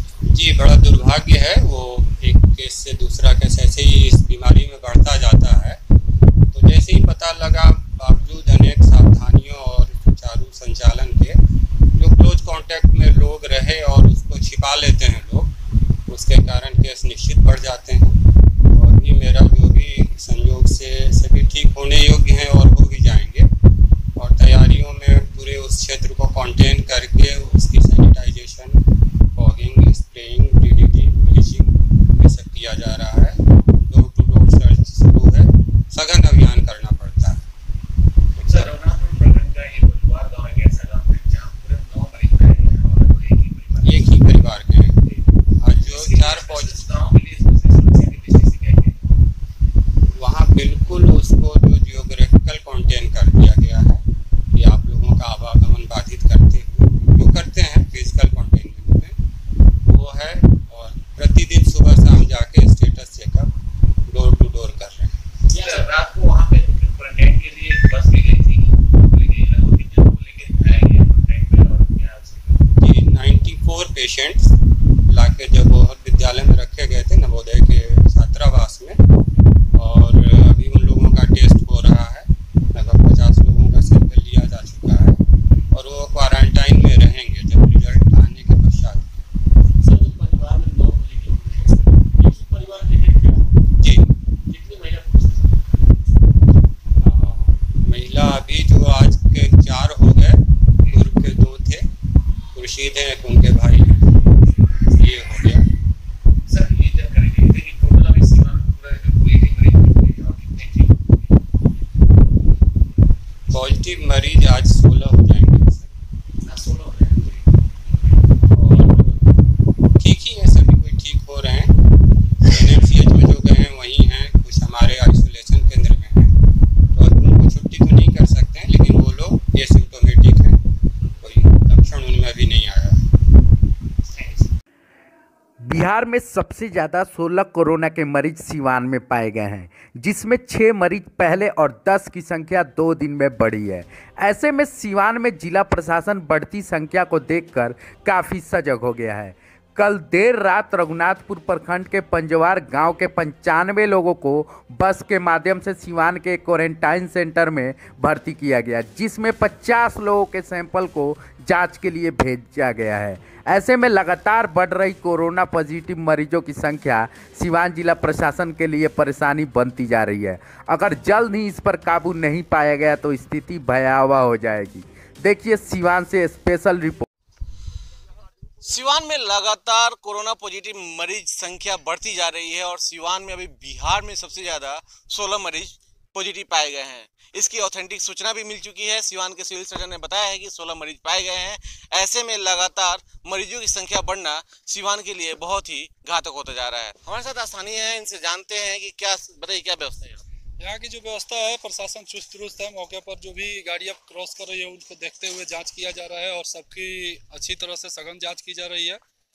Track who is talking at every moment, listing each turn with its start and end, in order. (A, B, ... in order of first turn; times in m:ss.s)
0:00.3-0:05.8 A
0:06.5-0:11.4 A
0:12.0-0:15.5 A
0:16.1-0:18.2 A
0:18.7-0:23.5 A
0:24.2-0:28.8 A
0:29.4-0:37.4 A
0:38.4-0:44.4 B
0:38.4-0:38.7 A
0:43.8-0:44.9 A
0:45.0-0:45.2 B
0:45.6-0:46.8 A
0:45.9-0:49.0 B
0:50.2-0:54.0 A
0:54.5-0:59.1 A
0:59.8-1:03.5 A
1:04.1-1:05.1 A
1:05.5-1:12.6 B
1:12.8-1:14.5 A
1:15.1-1:19.0 A
1:19.7-1:25.2 A
1:25.7-1:29.2 A
1:29.8-1:33.5 B
1:33.8-1:34.0 A
1:34.5-1:35.6 B
1:37.0-1:41.8 A
1:42.5-1:44.0 A
1:44.9-1:45.6 A
1:46.5-1:51.3 B
1:53.5-1:55.9 A
1:56.4-1:57.5 B
1:58.5-1:58.9 A
1:58.6-1:59.2 B
2:00.0-2:01.7 A
2:02.4-2:06.3 A
2:06.9-2:10.6 A
2:11.2-2:13.0 A
2:14.0-2:14.5 B
2:15.6-2:57.1 C
2:58.6-3:20.2 D
3:20.6-3:29.0 E